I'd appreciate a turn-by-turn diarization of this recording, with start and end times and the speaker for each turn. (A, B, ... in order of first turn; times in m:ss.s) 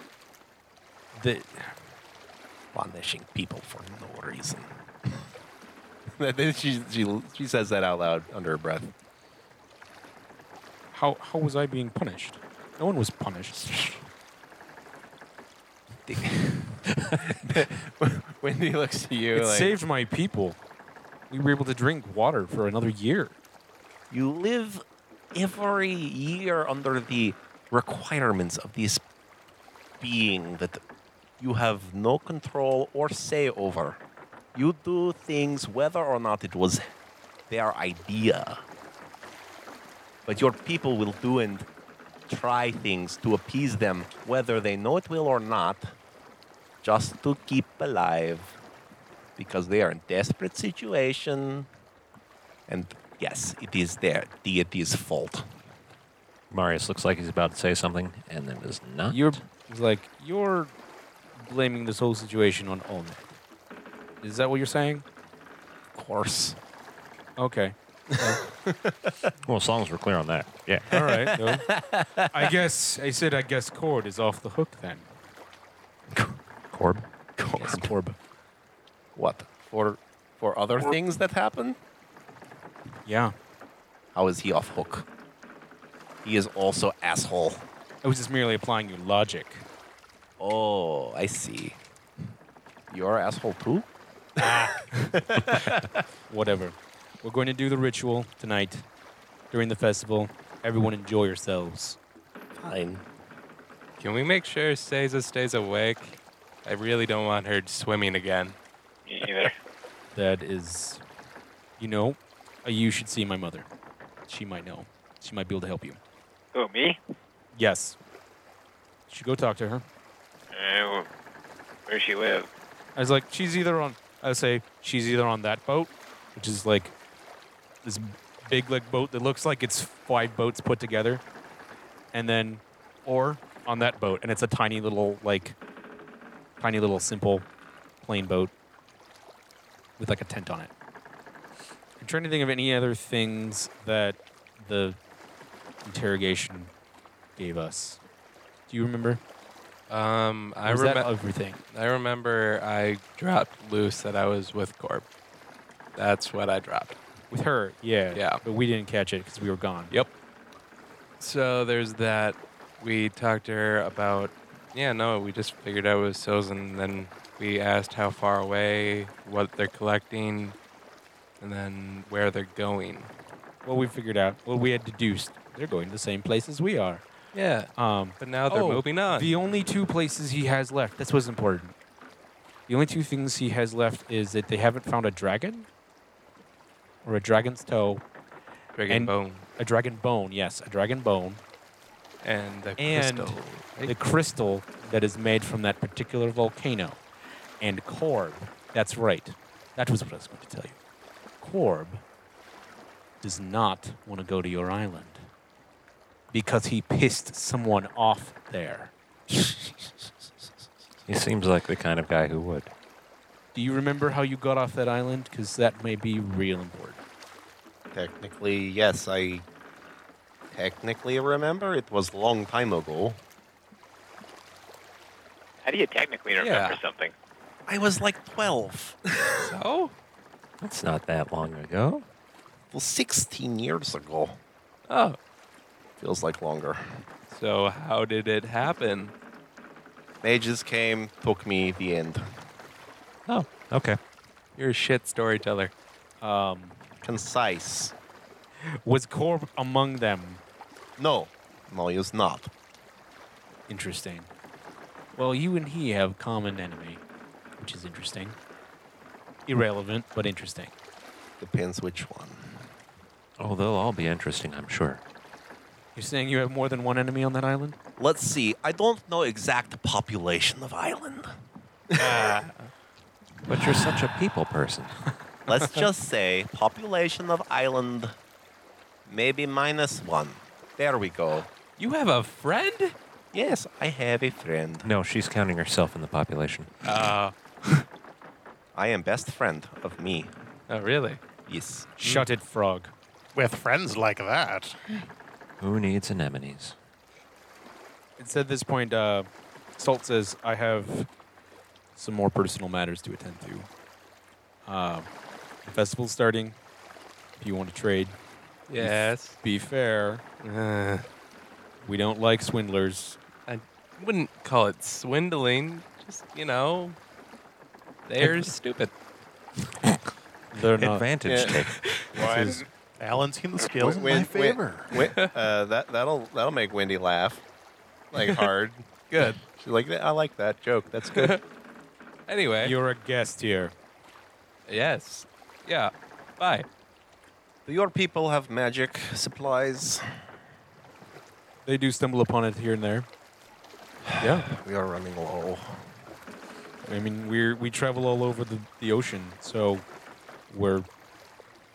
0:01.1-0:01.8 A
0:02.7-0:05.1 B
0:06.2-0:08.9 B
0:10.9-0:13.8 A
0:16.1-0:19.8 B
0:19.3-0:20.6 A
0:21.3-0:23.4 A
0:24.1-0:24.8 B
0:25.3-0:29.0 B
0:30.0-0:30.8 B
0:31.4-0:34.0 B
0:34.6-0:36.8 B
0:37.5-0:38.6 B
0:40.3-0:41.7 B
0:42.3-0:45.9 B
0:46.8-0:48.6 B
0:49.4-0:51.7 B
0:52.7-0:55.5 B
0:56.5-0:59.3 C
0:59.1-1:00.7 A
1:01.4-1:03.4 A
1:04.2-1:05.0 A
1:06.0-1:06.6 B
1:07.4-1:08.4 A
1:08.2-1:09.3 B
1:09.4-1:10.9 C
1:10.9-1:11.7 A
1:11.3-1:12.4 B
1:12.3-1:15.1 A
1:16.7-1:17.1 C
1:17.4-1:17.9 B
1:17.5-1:18.2 A
1:19.2-1:21.8 B
1:23.1-1:23.3 A
1:24.2-1:25.1 B
1:26.2-1:27.7 B
1:28.0-1:29.6 A
1:30.4-1:31.8 B
1:32.9-1:33.9 B
1:34.4-1:35.9 B
1:36.3-1:38.8 A
1:39.5-1:42.0 A
1:42.6-1:43.0 B
1:44.0-1:48.6 D
1:49.1-1:49.5 E
1:50.1-1:51.0 A
1:51.8-1:53.7 A
1:54.3-1:56.0 A
1:56.5-1:57.0 E
1:57.5-1:58.0 A
1:59.1-1:59.8 A
2:00.5-2:01.1 E
2:01.9-2:02.5 E
2:03.0-2:06.9 A
2:07.8-2:11.2 A
2:12.1-2:15.6 A
2:16.6-2:17.5 A
2:18.0-2:18.5 A
2:20.0-2:20.7 A
2:22.0-2:25.0 A
2:25.8-2:26.7 A
2:27.4-2:28.0 A
2:28.7-2:29.2 A
2:29.9-2:31.1 D
2:30.6-2:31.6 A
2:31.7-2:35.1 D
2:36.0-2:37.0 D
2:37.3-2:39.9 A
2:38.1-2:38.4 D
2:41.2-2:50.6 D
2:51.4-2:53.1 D
2:53.6-2:57.0 A
2:57.3-2:59.3 D
2:57.8-3:01.8 A
3:02.7-3:05.7 A
3:07.0-3:08.0 A
3:08.8-3:09.4 D
3:08.9-3:11.4 A
3:12.2-3:13.9 D
3:12.8-3:17.0 A
3:17.6-3:20.8 A
3:21.4-3:22.0 A
3:23.2-3:25.3 A
3:26.3-3:28.9 A
3:31.1-3:32.7 C
3:33.6-3:37.0 A
3:37.9-3:39.4 B
3:40.5-3:43.2 B
3:45.6-3:47.1 E
3:46.4-3:46.8 D
3:47.7-3:49.5 B
3:49.4-3:49.9 D
3:50.6-3:52.1 C
3:52.7-3:54.4 B
3:54.9-3:55.2 D
3:56.0-3:56.8 B
3:57.3-3:59.1 D
4:00.2-4:02.3 B
4:03.3-4:04.0 C
4:04.6-4:05.7 D
4:06.2-4:06.8 A
4:07.0-4:07.9 B
4:08.8-4:10.4 A
4:11.0-4:12.5 B
4:13.7-4:14.3 A
4:15.2-4:17.0 A
4:17.6-4:18.4 A
4:19.5-4:20.7 A
4:21.4-4:22.6 B
4:23.4-4:25.0 C
4:26.0-4:27.8 A
4:28.0-4:31.3 B
4:31.9-4:32.2 B
4:32.0-4:32.7 D
4:33.5-4:35.0 C
4:35.5-4:38.2 B
4:39.1-4:41.5 B
4:41.8-4:43.0 D
4:43.3-4:44.9 B
4:44.8-4:46.9 C
4:46.8-4:47.9 D
4:48.8-4:50.3 B
4:50.7-4:51.2 D
4:51.5-4:51.9 B
4:52.0-4:52.9 A
4:52.0-4:52.3 D
4:53.4-4:55.0 F
4:55.6-4:56.8 C
4:58.2-5:01.1 A
5:02.0-5:03.7 A
5:04.7-5:05.1 A
5:05.6-5:06.6 A
5:07.4-5:08.2 A
5:08.7-5:09.4 D
5:08.8-5:10.2 A
5:10.4-5:11.1 D
5:11.8-5:13.2 A
5:13.5-5:17.0 D
5:18.1-5:18.9 D
5:20.5-5:21.1 A
5:20.8-5:21.9 C
5:21.2-5:21.6 B
5:22.2-5:22.6 E
5:22.2-5:22.6 A
5:23.0-5:24.9 F
5:23.8-5:27.4 B
5:25.0-5:25.3 D
5:28.1-5:31.4 B
5:28.2-5:28.5 D
5:29.1-5:29.4 D
5:31.1-5:31.4 D
5:32.3-5:32.8 D
5:32.6-5:33.7 A
5:34.7-5:36.7 D
5:37.7-5:40.1 B
5:41.7-5:43.1 A
5:44.2-5:44.5 A
5:44.4-5:45.9 B
5:46.8-5:49.9 A
5:50.5-5:50.9 A